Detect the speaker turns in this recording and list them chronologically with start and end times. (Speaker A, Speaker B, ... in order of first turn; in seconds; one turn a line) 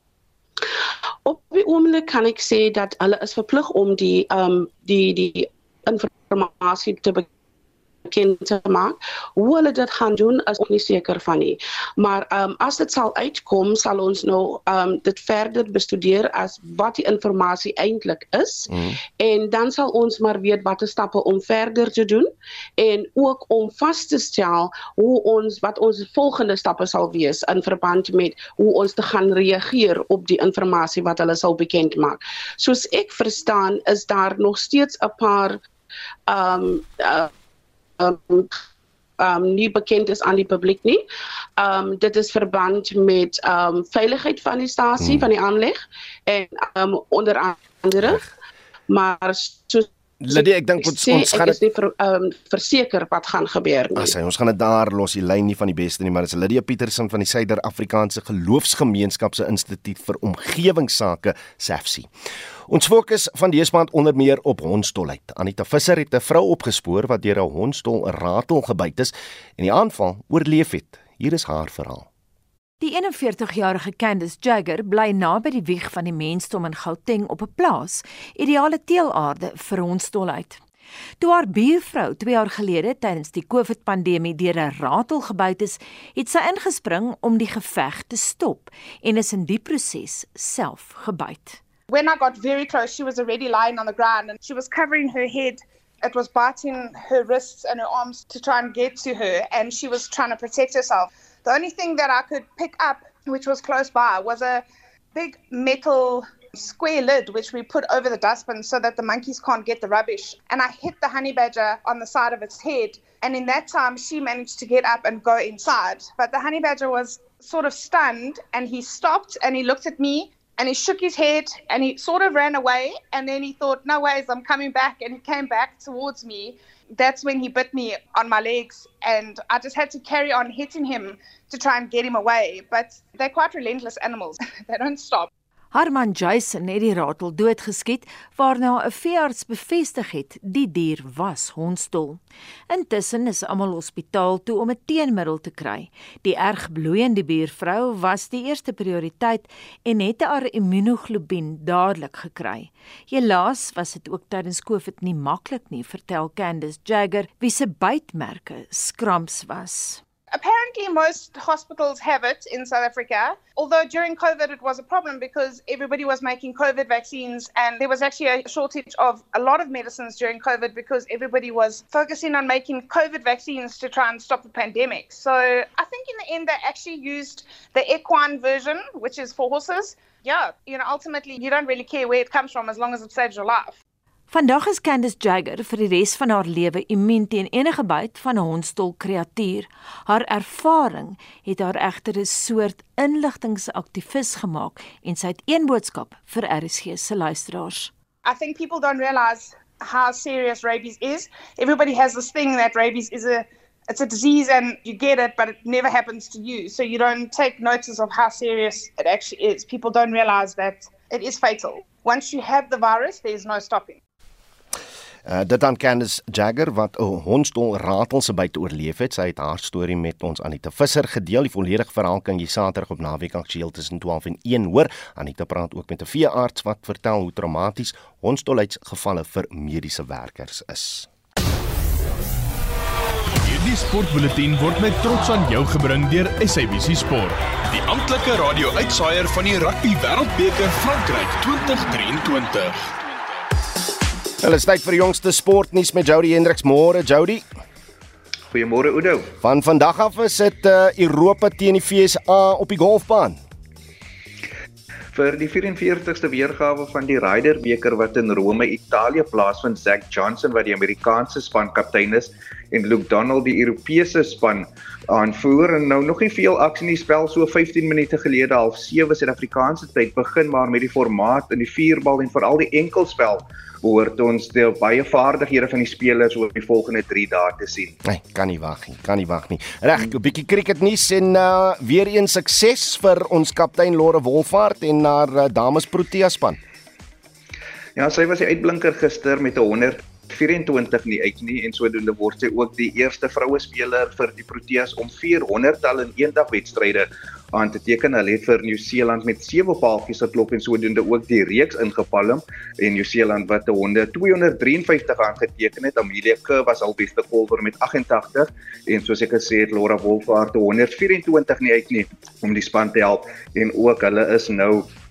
Speaker A: 1.2-7.3
Speaker A: 8.1-35.6
Speaker B: 18.7-19.0
Speaker A: 36.3-37.3
Speaker A: 38.0-38.6
Speaker A: 39.2-41.0
Speaker A: 41.6-48.2
Speaker B: 45.0-45.2
Speaker B: 48.0-48.3
Speaker A: 48.9-54.1
Speaker B: 50.2-51.6
Speaker B: 53.9-62.1
Speaker B: 62.7-72.1
Speaker C: 72.8-80.6
Speaker C: 81.2-91.6
Speaker D: 91.9-135.3
Speaker C: 135.7-160.0
Speaker D: 160.3-183.8
Speaker C: 184.3-197.9
Speaker D: 198.2-214.0
Speaker B: 215.2-231.1
Speaker E: 233.4-243.1
Speaker B: 244.4-247.4
Speaker F: 248.5-249.3
Speaker B: 249.4-253.4
Speaker F: 255.1-278.0
Speaker B: 278.0-286.6
Speaker F: 287.9-314.9